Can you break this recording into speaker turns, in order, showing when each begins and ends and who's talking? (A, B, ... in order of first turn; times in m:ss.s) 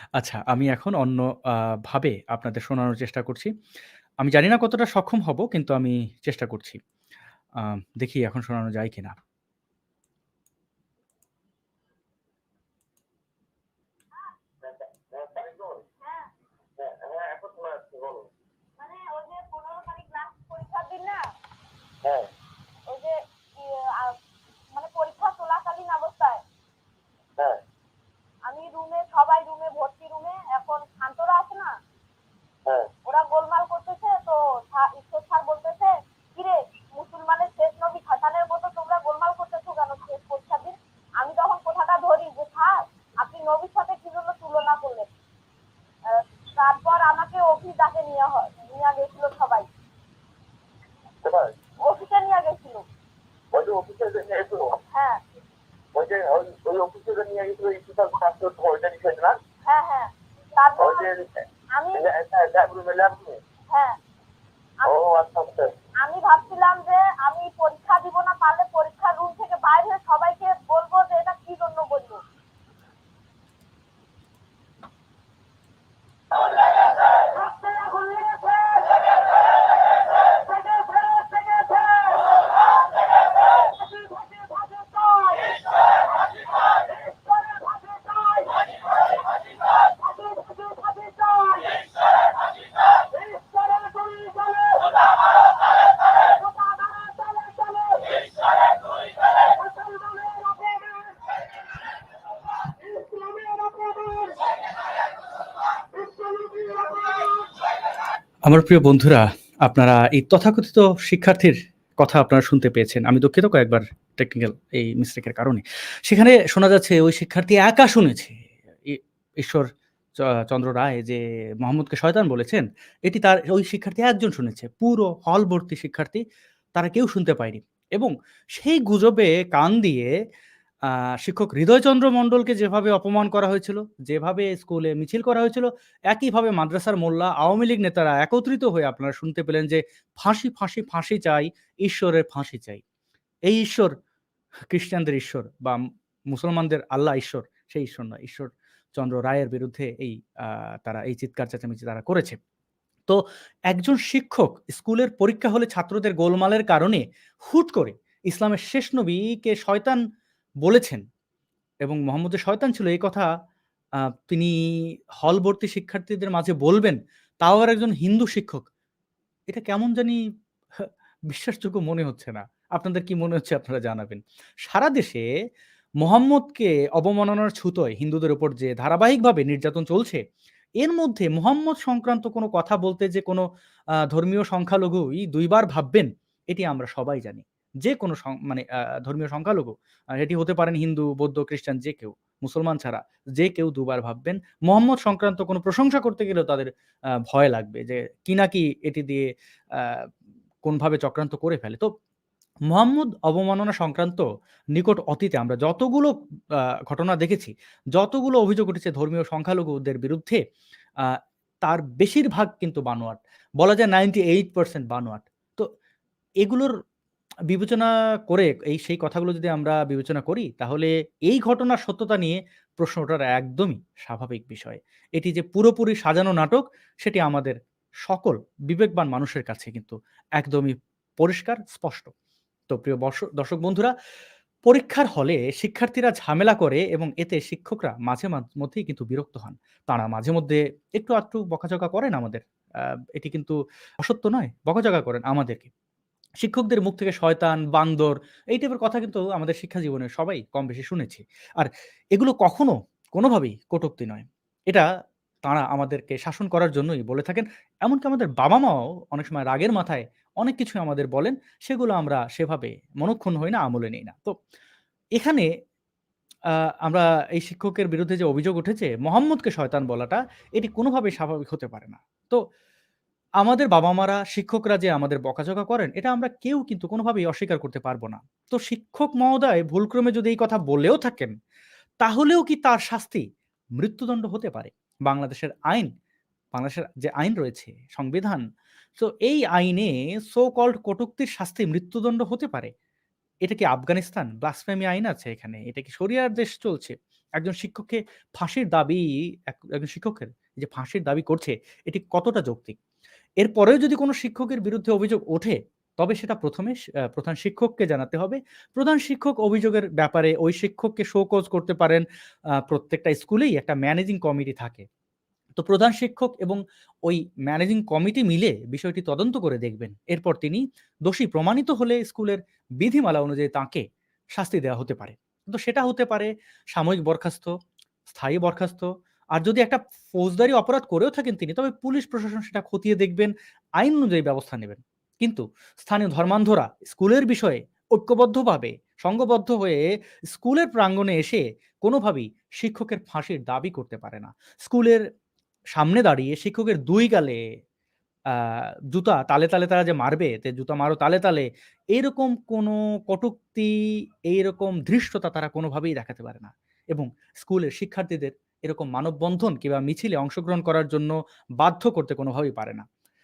0:00.2-0:03.5 A
0:04.2-0:06.8 A
0:07.6-0:09.2 A
0:14.6-0:15.9 B
0:16.0-0:16.3 C
0:16.8-0:18.3 B
0:18.8-0:21.2 C
0:22.0-0:22.3 B
0:22.9-0:24.2 C
0:24.7-0:26.4 C
0:28.5-0:31.8 C
0:32.6-0:32.9 B
0:33.0-0:45.1 C
0:46.1-0:49.7 C
0:51.2-0:51.6 B
0:51.8-0:52.8 C
0:53.5-0:54.8 B
0:54.9-0:55.2 C
0:56.0-0:59.4 B
0:59.6-1:01.1 C
1:00.8-1:03.4 B
1:01.7-1:02.1 C
1:03.7-1:04.0 C
1:04.8-1:05.7 B
1:06.0-1:12.2 C
1:17.3-1:19.1 C
1:20.3-1:22.4 C
1:23.5-1:25.6 C
1:27.1-1:28.6 C
1:30.1-1:31.8 C
1:33.2-1:35.0 C
1:36.6-1:38.2 C
1:39.9-1:40.8 C
1:48.5-1:59.7 A
2:00.2-2:06.2 A
2:06.8-2:10.1 A
2:10.9-2:22.8 A
2:23.5-2:24.0 A
2:24.7-2:25.8 A
2:26.3-2:32.4 A
2:33.1-2:40.0 A
2:40.6-2:41.0 A
2:41.8-2:43.3 A
2:44.0-2:48.7 A
2:49.5-2:50.2 A
2:50.8-2:55.2 A
2:56.0-3:00.2 A
3:00.8-3:03.4 A
3:04.1-3:16.7 A
3:17.3-3:20.1 A
3:20.6-3:21.9 A
3:22.7-3:24.2 A
3:24.8-3:26.2 A
3:26.9-3:30.4 A
3:31.0-3:35.7 A
3:36.4-3:36.7 A
3:37.5-3:52.1 A
3:52.7-3:53.9 A
3:54.6-4:05.7 A
4:06.4-4:14.9 A
4:15.4-4:24.4 A
4:25.2-4:25.5 A
4:26.6-4:32.4 A
4:33.4-4:41.3 A
4:42.0-4:43.2 A
4:43.8-4:45.9 A
4:46.5-4:48.4 A
4:49.0-4:52.7 A
4:53.4-5:02.8 A
5:03.4-5:12.0 A
5:12.7-5:14.9 A
5:15.6-5:23.8 A
5:24.4-5:27.5 A
5:28.1-5:45.0 A
5:45.7-5:47.4 A
5:48.3-5:53.8 A
5:54.3-6:02.9 A